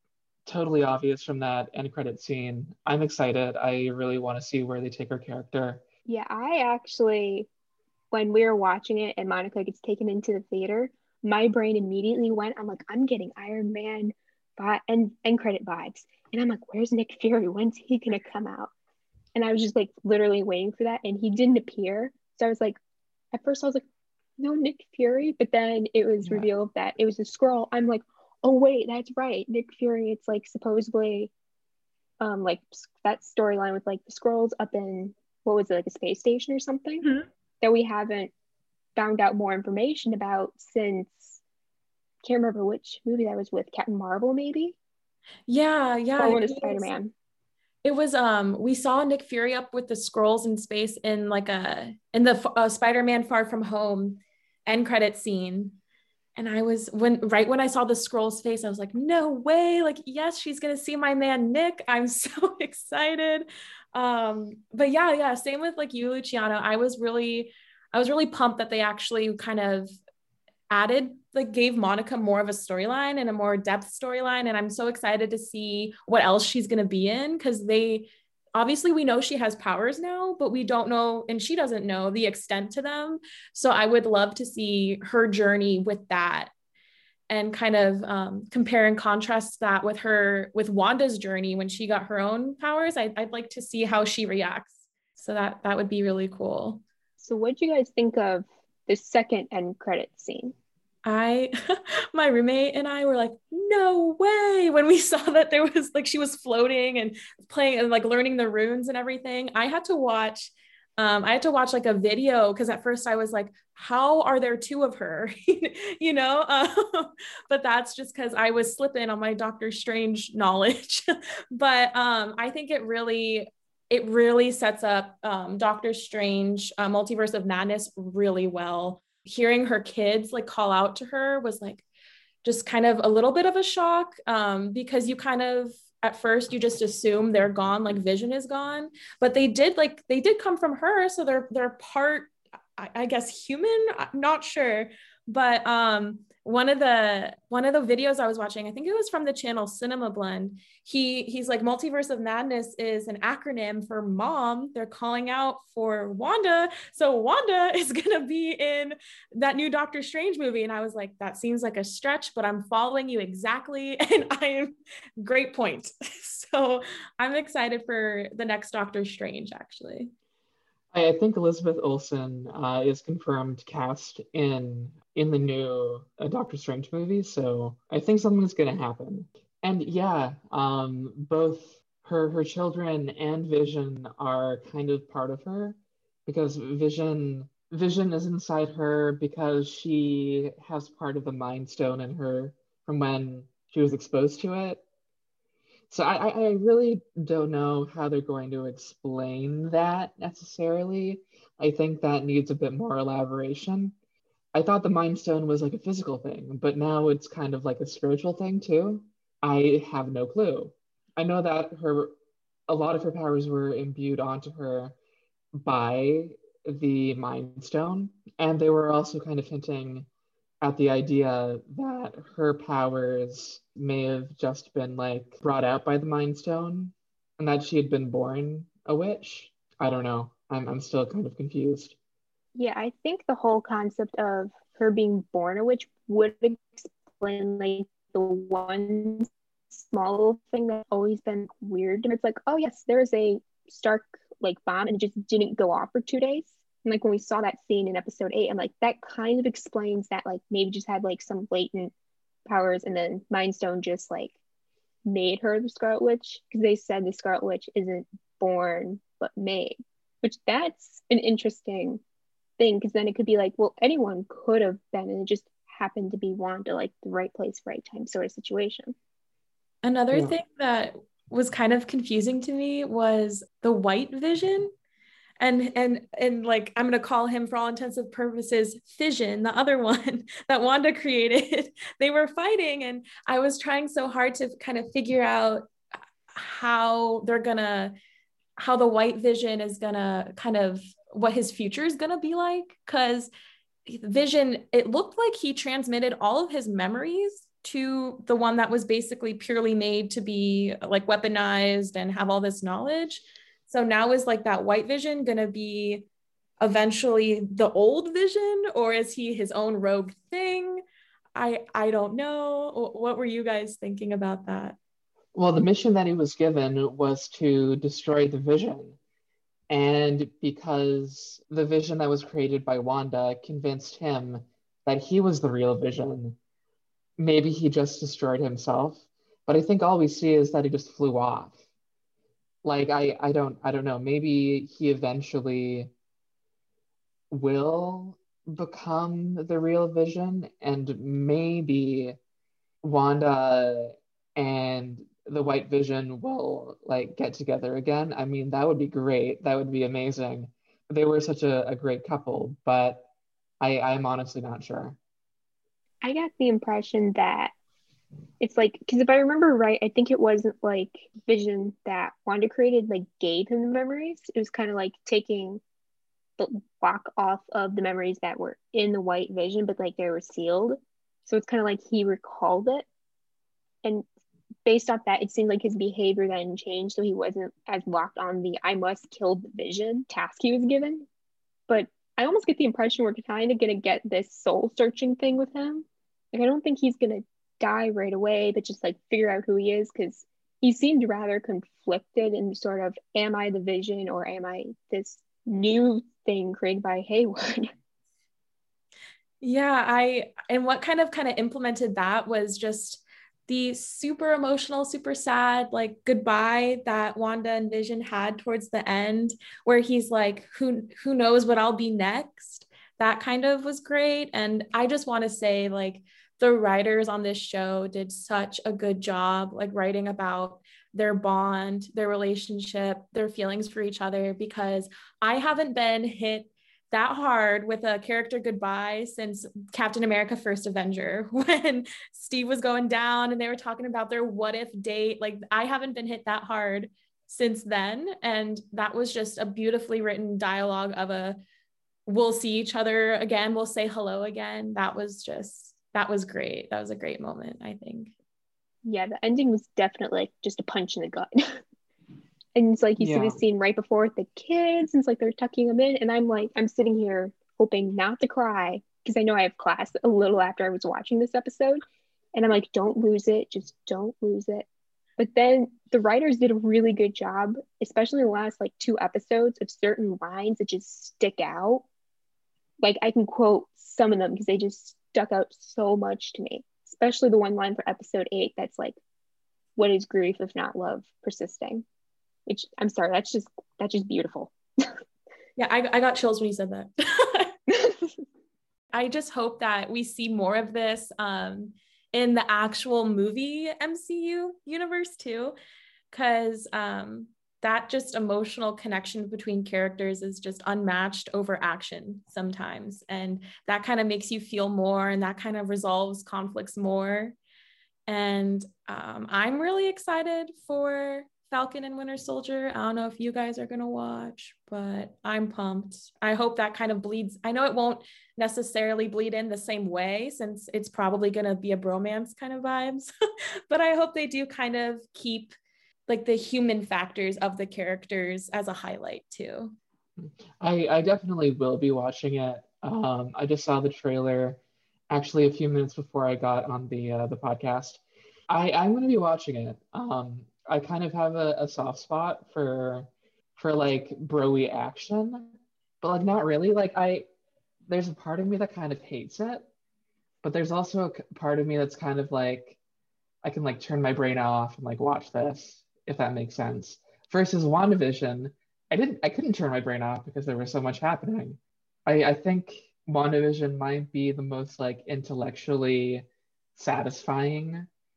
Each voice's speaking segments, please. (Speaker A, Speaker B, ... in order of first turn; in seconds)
Speaker A: 0.5-5.8, 26.2-26.5, 170.9-194.8, 195.9-203.9, 204.5-212.1, 212.7-214.9, 215.5-220.1, 220.6-231.9, 270.1-270.4, 315.3-319.0, 319.7-326.4, 327.2-331.6, 332.6-335.9, 337.3-342.2, 342.8-353.1, 353.6-355.0, 453.0-453.4, 530.2-545.5, 546.0-547.2, 547.9-549.7, 550.4-552.8, 553.4-566.2, 566.8-567.9
Speaker B: 6.0-7.5, 8.1-18.7, 19.3-22.8, 23.3-23.8, 24.4-31.3, 32.2-37.0, 37.6-38.3, 39.0-41.4, 42.2-44.8, 46.2-47.1, 97.2-100.5, 232.5-251.9, 252.4-254.3, 255.0-262.0, 262.6-268.9, 356.0-357.5, 358.4-365.6, 366.4-372.9, 374.6-381.1, 381.7-397.7, 448.8-451.6, 452.5-461.8, 462.3-464.6, 465.2-471.8, 472.8-479.0, 479.8-481.8, 482.4-485.0
Speaker C: 45.5-46.9, 47.8-55.8, 56.4-70.0, 70.7-86.5, 87.3-96.8, 101.0-131.8, 132.4-170.1, 269.8-274.7, 275.4-285.7, 286.3-287.9, 288.6-293.3, 293.9-306.1, 306.6-310.8, 311.4-314.8, 399.4-441.4, 442.1-448.1, 485.6-487.5, 488.9-495.5, 496.1-507.4, 508.1-523.1, 523.7-525.5, 526.1-529.7